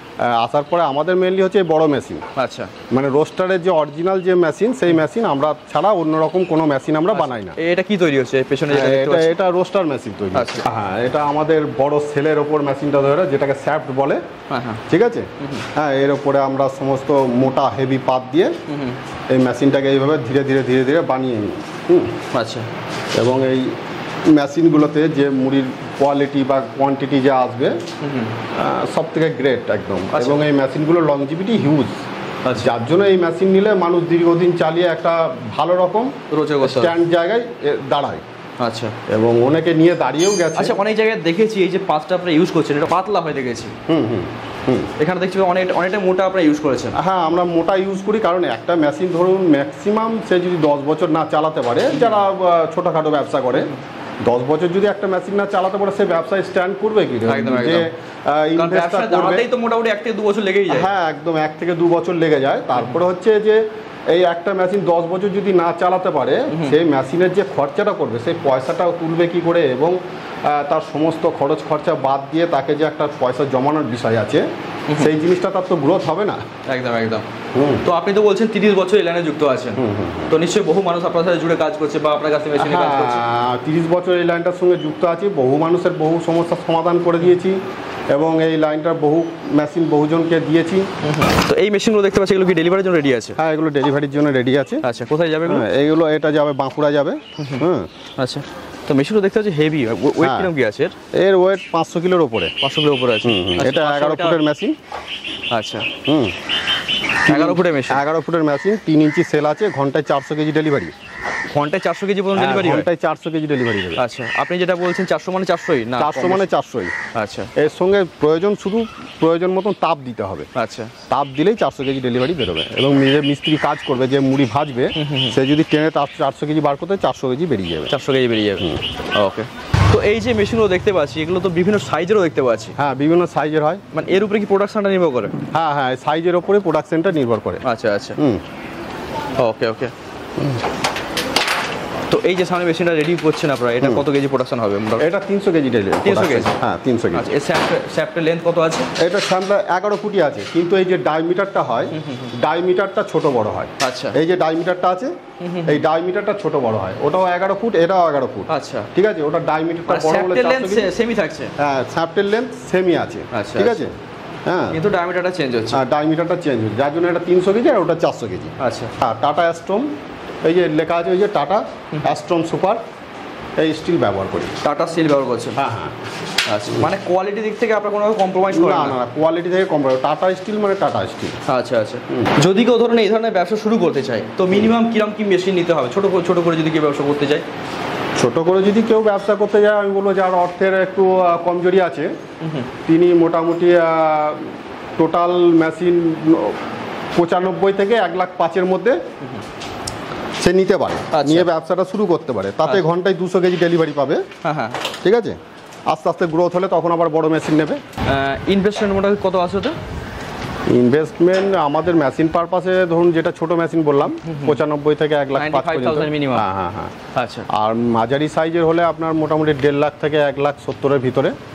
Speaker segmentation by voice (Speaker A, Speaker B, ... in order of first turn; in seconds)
Speaker A: 0.2-2.2, 2.9-7.5, 8.7-14.2, 14.9-18.6, 19.3-22.1, 23.1-23.8, 24.3-27.8, 28.5-32.0, 32.5-38.2, 39.1-40.8, 43.9-44.9, 46.9-53.7, 54.2-59.5, 60.7-76.4, 77.5-77.8, 79.8-80.3, 82.6-87.6, 88.1-90.9, 93.4-94.8, 95.5-97.9, 100.2-100.5, 101.1-102.5, 103.2-104.7, 106.0-106.3, 107.2-110.9, 112.3-114.0, 116.0-116.9, 117.5-120.5, 121.1-127.9, 132.8-133.8, 135.5-137.6, 145.0-147.2, 149.0-155.1, 155.7-160.9, 161.6-163.9, 164.5-164.8, 165.7-169.9, 170.4-172.8, 173.6-174.6, 175.6-176.0, 178.5-181.4, 188.2-192.1, 192.8-196.6, 197.2-199.0, 200.4-204.2, 205.0-205.4, 205.9-207.8, 210.7-216.9, 217.5-221.3
Speaker B: 2.4-2.7, 7.1-9.3, 10.3-10.7, 14.5-14.8, 15.4-15.7, 18.7-19.0, 22.3-22.7, 28.0-28.4, 30.1-30.5, 32.4-32.7, 36.3-37.0, 38.6-39.0, 40.5-43.8, 45.0-47.0, 51.9-52.2, 57.2-57.9, 58.5-60.9, 66.5-66.8, 76.7-77.3, 77.8-83.2, 91.0-93.4, 94.8-95.6, 97.4-97.7, 98.2-100.9, 102.6-104.4, 105.5-105.9, 107.2-108.0, 111.5-112.9, 114.0-116.5, 117.1-117.5, 120.5-120.9, 124.9-125.4, 127.9-132.8, 133.9-135.3, 137.6-138.2, 139.4-139.9, 142.1-145.1, 146.0-146.5, 147.1-148.9, 151.9-152.3, 153.8-154.2, 155.4-155.8, 158.5-158.9, 159.9-161.5, 163.3-163.9, 164.7-165.8, 168.6-168.9, 174.6-175.6, 176.4-179.0, 181.5-187.4, 192.4-192.7, 201.1-201.5, 204.4-204.8, 208.1-209.8, 214.2-214.6, 215.3-216.4, 217.1-217.5